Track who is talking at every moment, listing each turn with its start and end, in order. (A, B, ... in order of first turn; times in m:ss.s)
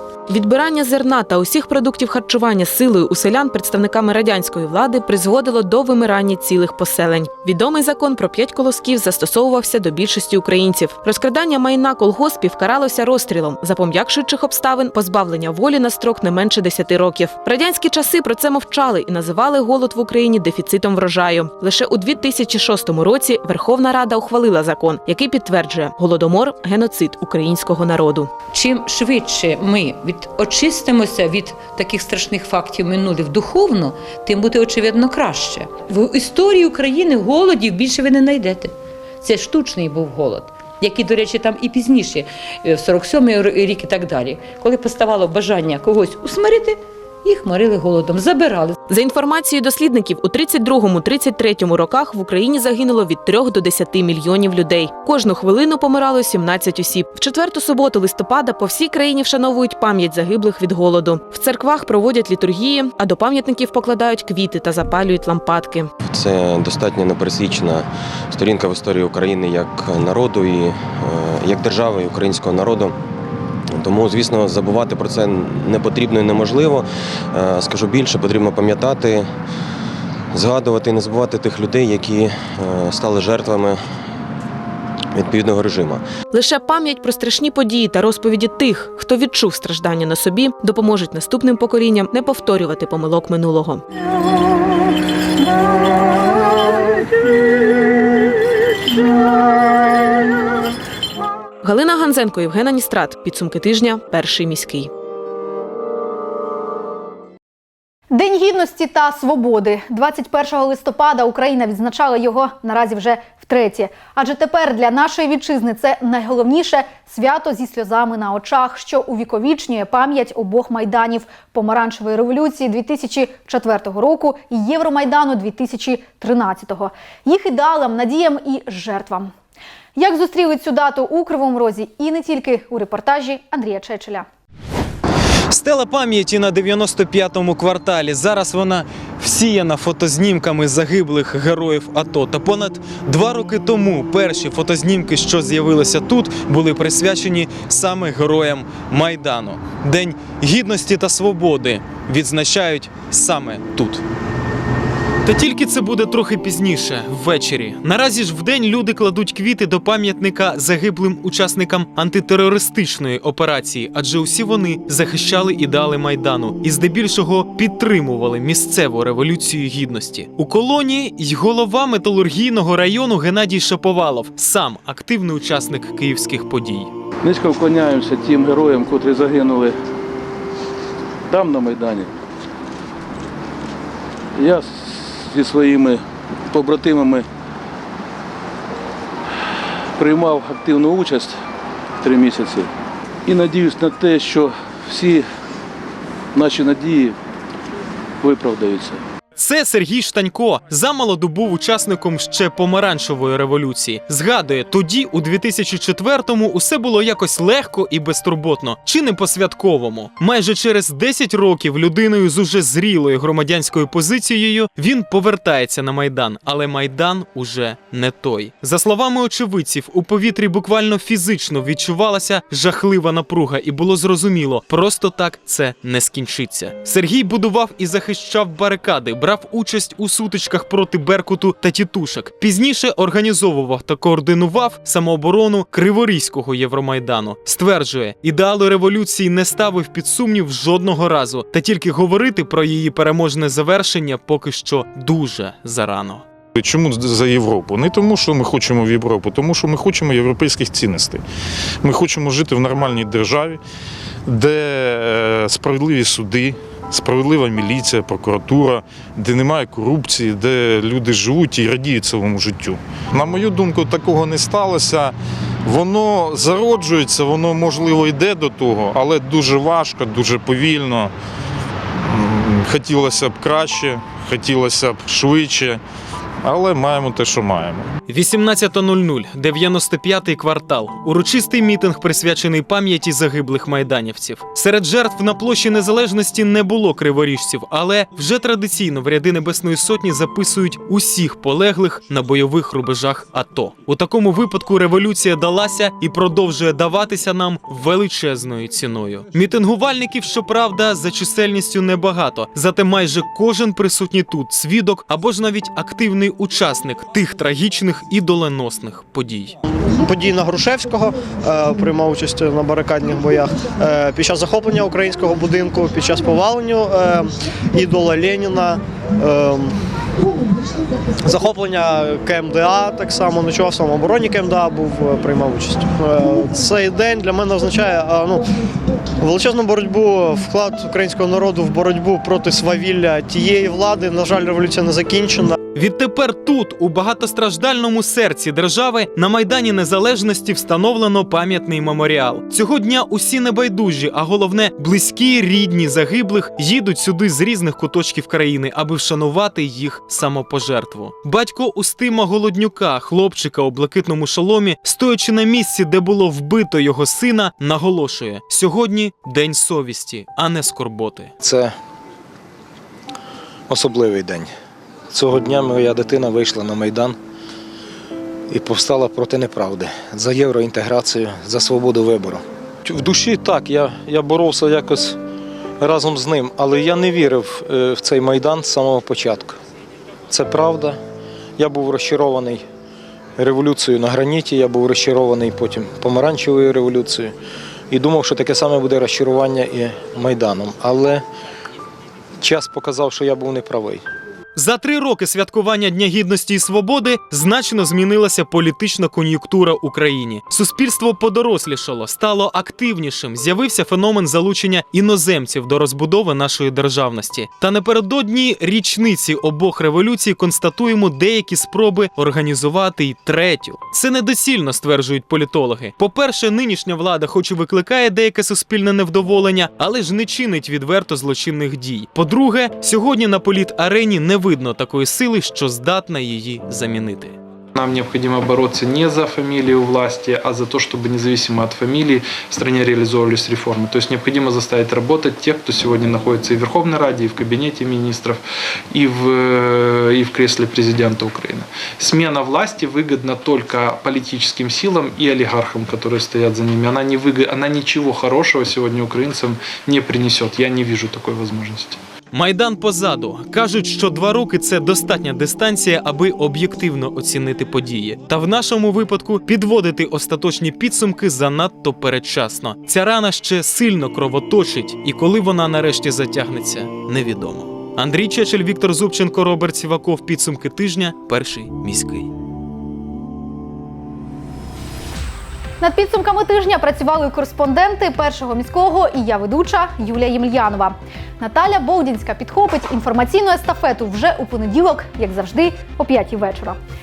0:00.3-0:28.3 A
0:28.5-0:48.8 B
0:48.9-1:05.9 A
1:06.1-1:13.0 C
1:13.7-1:19.3 C
1:20.3-1:23.8 C
1:25.1-1:26.0 C
1:26.3-1:33.8 A
1:41.6-1:44.9 A
1:48.1-2:09.3 D
2:10.0-2:14.3 D
2:15.5-2:34.0 E
2:35.2-2:56.9 E
2:57.2-2:59.7 F
3:01.3-3:02.1 F
3:04.4-3:07.2 F
3:10.0-3:11.4 F
3:12.0-3:12.7 F
3:13.2-3:15.2 F
3:16.3-3:17.1 F
3:18.2-3:19.0 F
3:19.4-4:06.2 E
4:06.6-4:11.2 G
4:11.8-4:13.6 G
4:14.2-4:31.1 G
4:32.1-4:35.8 G
4:36.4-4:37.9 G
4:38.1-5:09.6 E
5:10.0-5:19.7 H
5:21.2-5:28.4 H
5:29.2-5:35.5 H
5:35.7-6:01.3 E
6:01.4-6:01.7 I
6:03.7-6:04.5 I
6:05.1-6:07.2 I
6:08.5-6:15.2 I
6:15.8-6:19.6 I
6:20.3-6:21.0 I
6:21.6-6:22.6 I
6:23.4-6:27.3 I
6:27.9-6:31.2 I
6:32.4-6:34.0 I
6:34.5-7:07.4 E
7:07.7-7:32.0 J
7:32.3-7:52.3 E
7:55.8-8:06.8 D